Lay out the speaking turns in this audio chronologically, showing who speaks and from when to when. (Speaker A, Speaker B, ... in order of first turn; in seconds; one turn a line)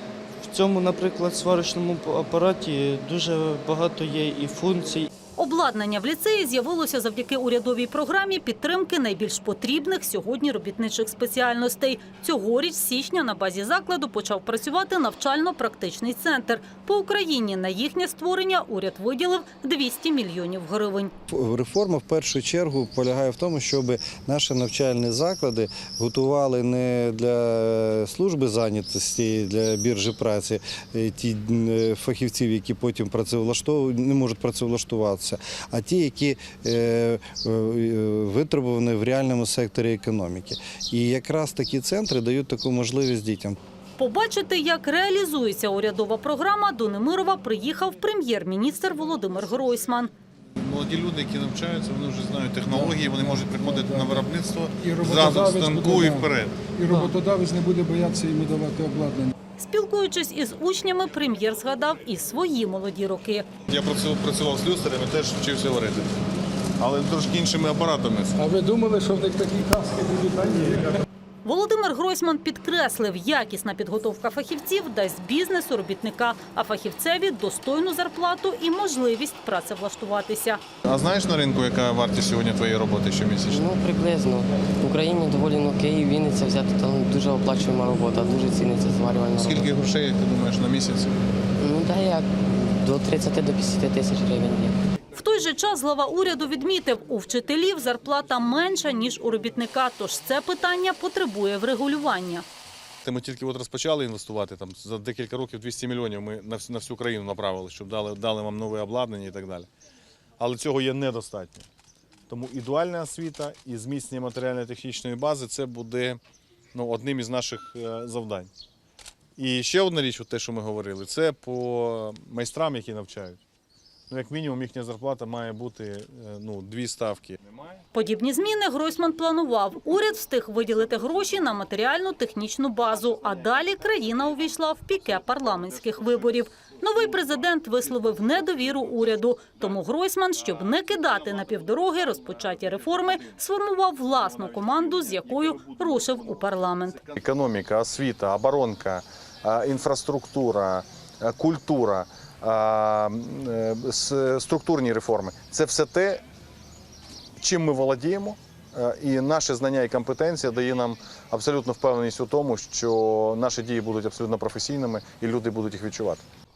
Speaker A: 0.5-5.1
Speaker B: 5.4-21.1
Speaker C: 21.3-43.6
Speaker B: 44.0-50.1
Speaker D: 50.6-56.7
Speaker E: 52.7-54.2
Speaker E: 54.8-59.3
Speaker B: 59.6-63.5
Speaker D: 63.7-66.1
Speaker D: 66.8-68.4
Speaker E: 68.4-71.0
Speaker B: 71.4-80.6
Speaker D: 80.8-83.7
Speaker F: 83.5-89.8
Speaker D: 89.4-91.1
Speaker F: 91.6-94.7
Speaker B: 95.1-102.4
Speaker D: 103.0-109.7
Speaker D: 110.4-111.7
Speaker D: 112.3-116.2
Speaker D: 116.7-118.5
Speaker D: 119.4-123.4
Speaker D: 124.1-127.8
Speaker B: 127.9-147.1
Speaker D: 147.1-156.2
Speaker D: 157.4-166.2